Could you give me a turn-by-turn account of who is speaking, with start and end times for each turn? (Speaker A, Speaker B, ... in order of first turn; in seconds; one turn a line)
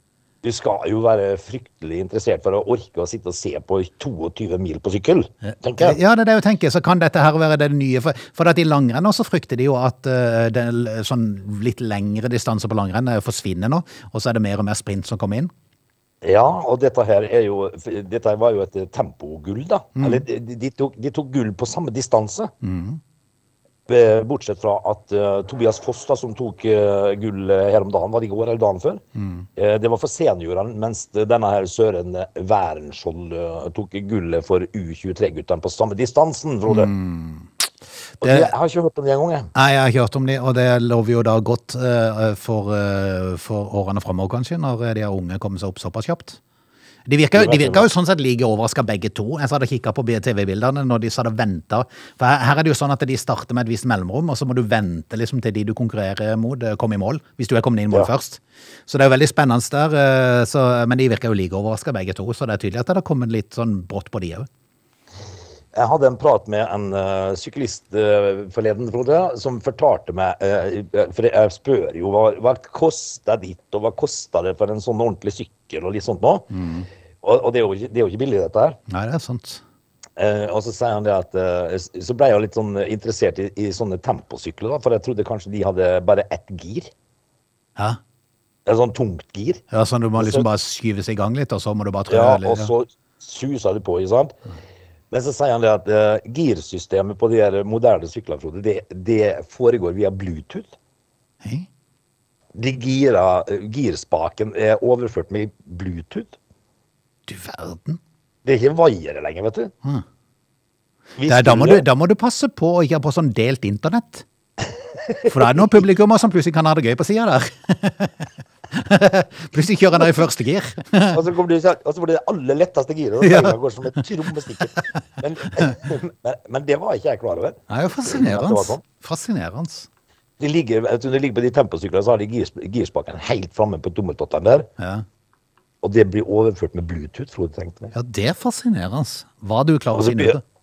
Speaker A: 0.4-6.0
Speaker B: 5.4-15.5
Speaker A: 16.2-22.5
Speaker B: 20.0-20.2
Speaker B: 22.6-23.0
Speaker A: 23.9-29.0
Speaker B: 29.1-29.5
Speaker A: 29.6-36.9
Speaker B: 36.7-37.5
Speaker B: 38.2-38.5
Speaker A: 38.2-39.5
Speaker B: 39.5-46.4
Speaker B: 47.1-64.5
Speaker A: 47.3-47.9
Speaker A: 65.7-76.5
Speaker B: 76.5-76.9
Speaker A: 77.2-78.8
Speaker B: 78.9-79.6
Speaker A: 80.2-86.9
Speaker A: 88.7-89.6
Speaker B: 89.7-92.7
Speaker A: 90.2-90.4
Speaker A: 92.1-94.4
Speaker A: 95.1-100.7
Speaker A: 102.5-106.3
Speaker B: 107.3-108.0
Speaker A: 108.4-109.7
Speaker A: 111.2-111.8
Speaker B: 111.3-114.2
Speaker A: 115.1-115.8
Speaker B: 115.2-121.2
Speaker A: 121.1-128.8
Speaker B: 123.2-124.0
Speaker B: 127.7-129.9
Speaker A: 130.4-134.7
Speaker B: 134.8-135.0
Speaker A: 135.8-137.9
Speaker B: 137.9-140.4
Speaker A: 139.9-140.4